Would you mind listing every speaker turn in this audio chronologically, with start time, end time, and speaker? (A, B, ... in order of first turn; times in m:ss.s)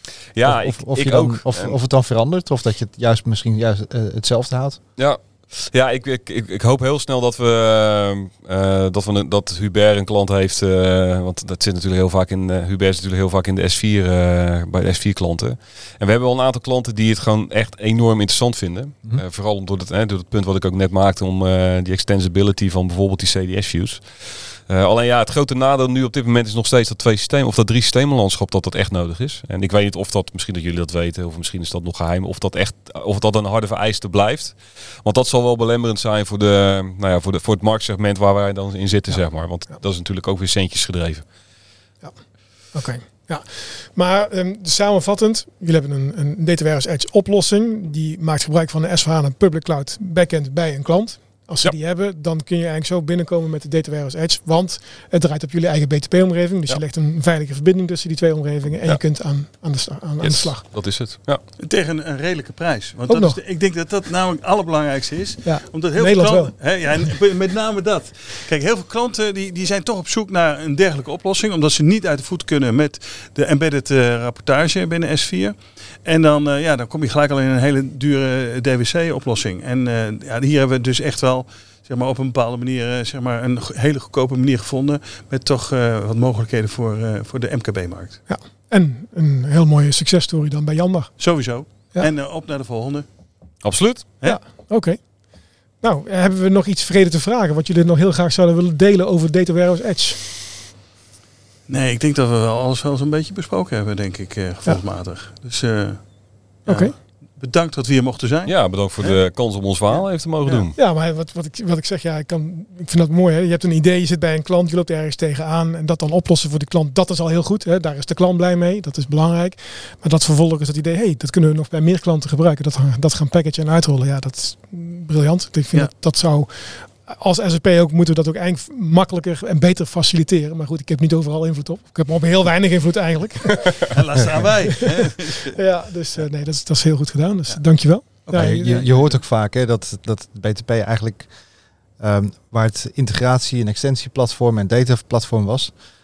0:00.3-0:01.8 A
0:00.4-0:04.8 B
0:05.0-0:41.2 A
0:42.0-1:00.6 C
1:00.2-1:01.4 A
1:01.6-1:28.2 D
1:03.1-1:03.4 C
1:05.4-1:06.5 C
1:28.3-1:32.1 C
1:31.2-1:33.0 D
1:33.6-1:34.1 A
1:34.2-1:40.2 C
1:41.7-1:50.7 D
1:46.7-1:46.9 C
1:48.4-1:50.7 A
1:50.7-2:13.9 C
2:13.8-2:15.6 D
2:15.5-2:18.8 C
2:18.2-2:19.2 D
2:18.3-2:21.3 B
2:22.0-2:25.7 B